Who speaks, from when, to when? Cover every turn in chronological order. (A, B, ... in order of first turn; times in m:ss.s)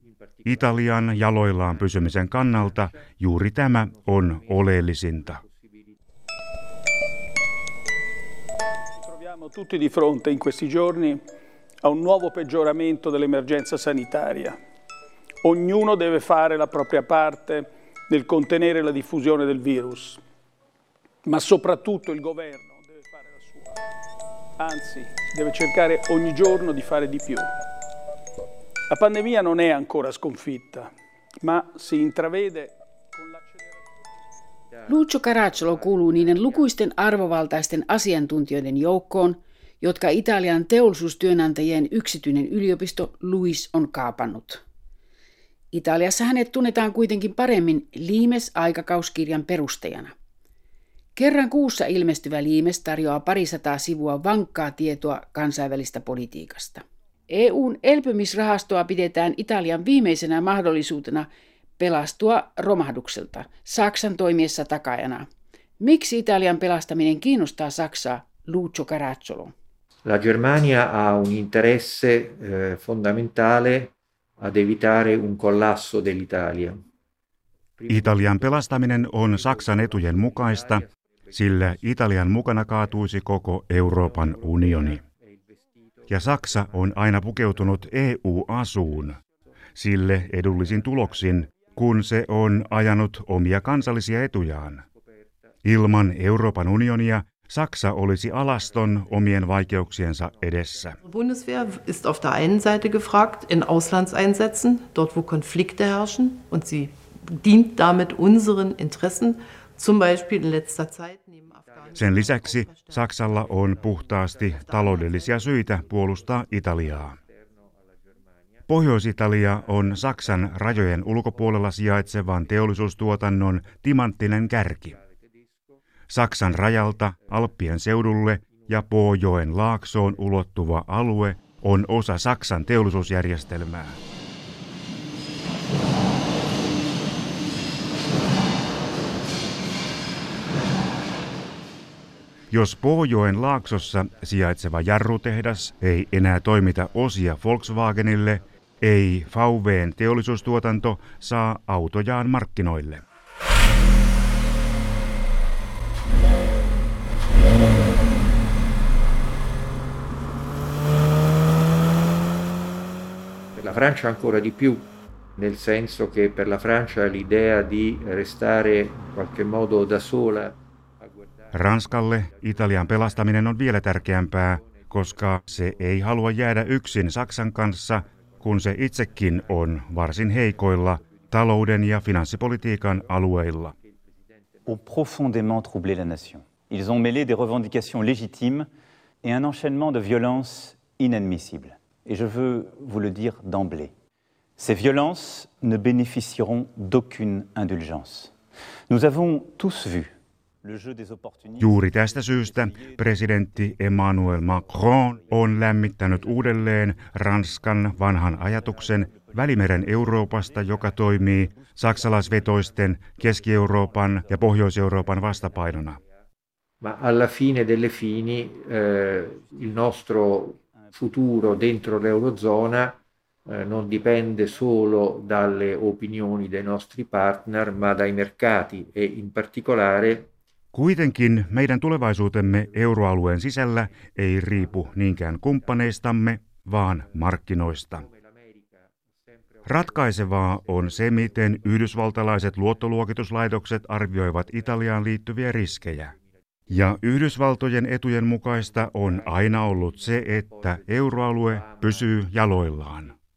0:00.4-0:05.4 A
0:09.1-0:11.2 B
0:11.8-0:14.6 B
0:15.4-0:20.2 B
0:21.2-0:23.7 B
0:24.6-0:27.5 B
0:28.9-0:30.9 B
0:31.4-0:33.4 B
0:34.9-0:44.6 C
0:45.7-0:50.1 C
0:51.1-1:05.2 C
1:05.8-1:09.5 C
1:10.0-1:16.8 D
1:17.8-1:18.5 D
1:17.9-1:25.0 A
1:26.1-1:29.2 A
1:29.8-1:34.8 A
1:35.6-1:41.0 A
1:41.0-1:53.1 E
1:51.9-1:57.2 A
1:54.7-1:55.2 E
1:58.7-2:05.0 A
2:06.1-2:14.0 A
2:22.5-2:33.0 A
2:43.5-2:50.6 D
2:51.5-3:03.7 A
3:04.6-3:08.7 F
3:09.2-3:13.9 F
3:14.6-3:18.3 F
3:18.9-3:23.0 F
3:21.6-3:36.0 A
3:36.8-3:50.3 D
3:50.7-3:58.0 A
3:59.6-4:06.1 A
4:06.7-4:13.1 A